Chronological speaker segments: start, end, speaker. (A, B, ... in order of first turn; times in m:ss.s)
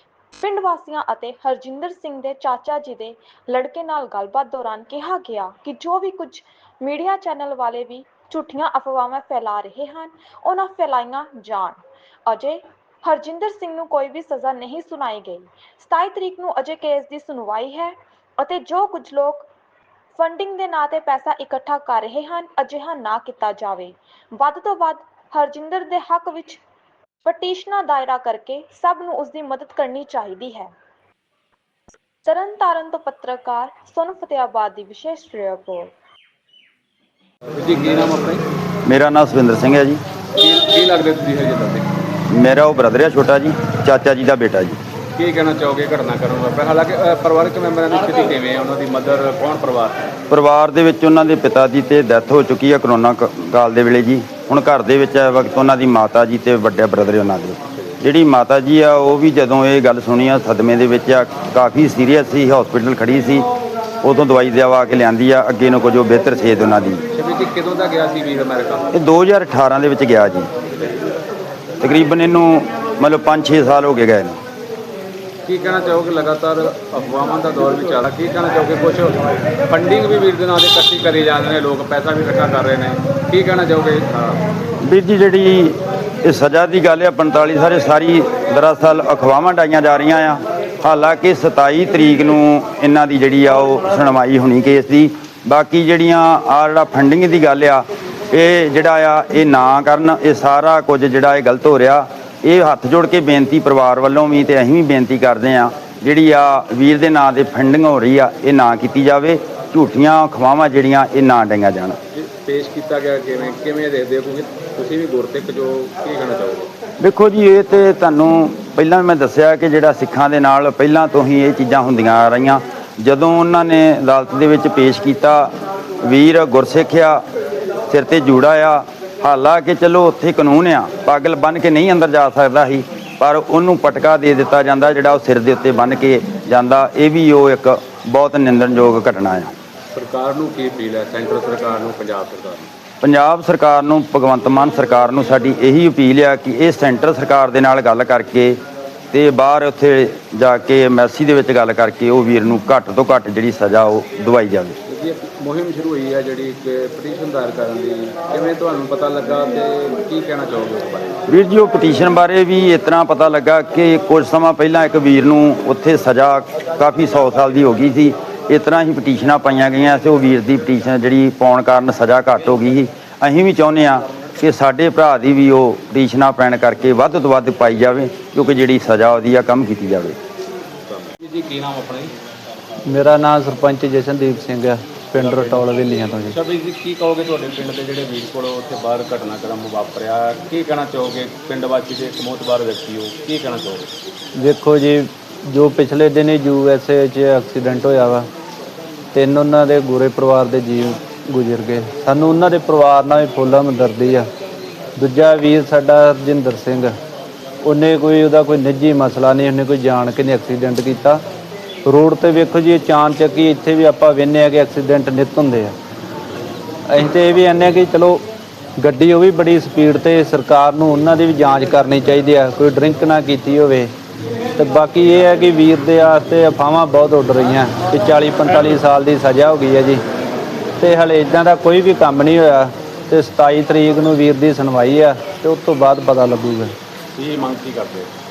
0:00.4-0:19.5 A
0:20.1-0:26.6 A
0:27.2-0:30.7 A
0:32.2-0:35.9 A
0:37.5-0:38.4 B
0:38.8-0:40.0 C
0:40.4-0:41.9 B
0:42.3-0:44.8 C
0:45.2-0:50.1 B
0:50.3-1:03.4 C
1:04.0-1:07.0 C
1:07.1-1:08.9 B
1:08.9-1:10.5 C
1:11.8-1:14.4 C
1:15.4-1:24.4 B
1:24.8-1:52.0 C
1:52.1-1:56.7 B
1:57.0-2:07.2 C
2:07.9-2:19.5 C
2:19.9-2:22.7 B
2:23.0-2:28.6 C
2:29.1-2:34.8 C
2:34.9-2:41.2 B
2:41.3-3:00.2 C
3:00.9-3:02.1 B
3:02.8-3:06.3 D
3:05.2-3:13.8 B
3:14.4-3:18.3 D
3:19.1-3:24.3 D
3:25.0-3:26.9 D
3:27.6-3:31.2 D
3:31.8-3:35.7 D
3:36.9-3:38.2 D
3:38.8-3:43.9 D
3:44.5-3:50.0 D
3:50.8-3:56.7 D
3:57.2-3:58.1 B